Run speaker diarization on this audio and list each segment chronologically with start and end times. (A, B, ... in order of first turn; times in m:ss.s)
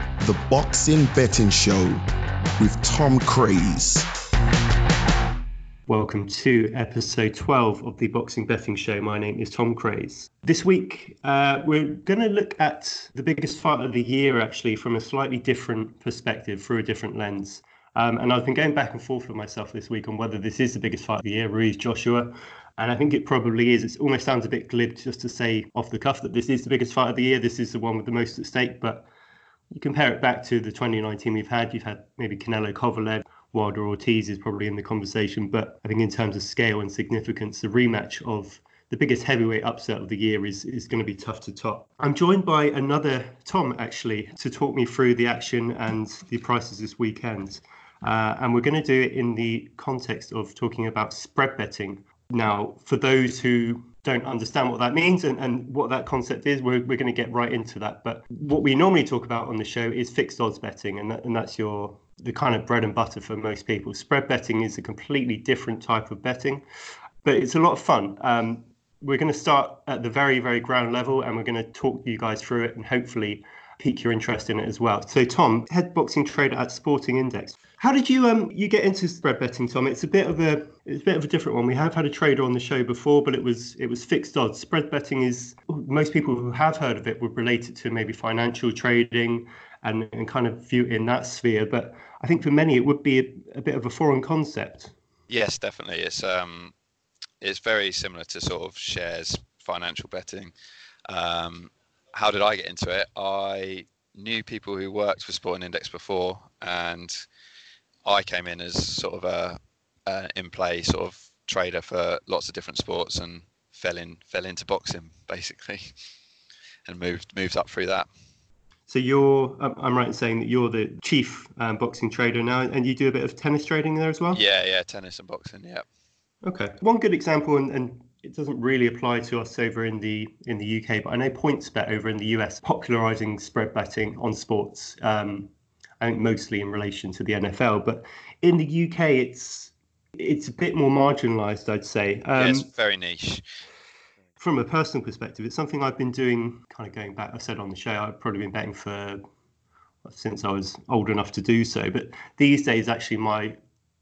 0:00.2-0:02.0 A
0:02.6-0:04.1 A
0:05.9-0:29.1 B
0:29.7-1:06.6 B
1:07.2-1:34.9 B
1:35.3-1:36.7 C
1:37.4-1:40.5 C
1:41.1-1:47.2 C
1:48.0-1:55.9 C
1:56.8-1:58.1 C
1:58.9-2:04.4 B
2:04.3-2:05.8 C
2:06.4-2:22.6 B
2:22.4-2:23.4 C
2:24.4-2:29.2 B
2:30.0-2:33.6 B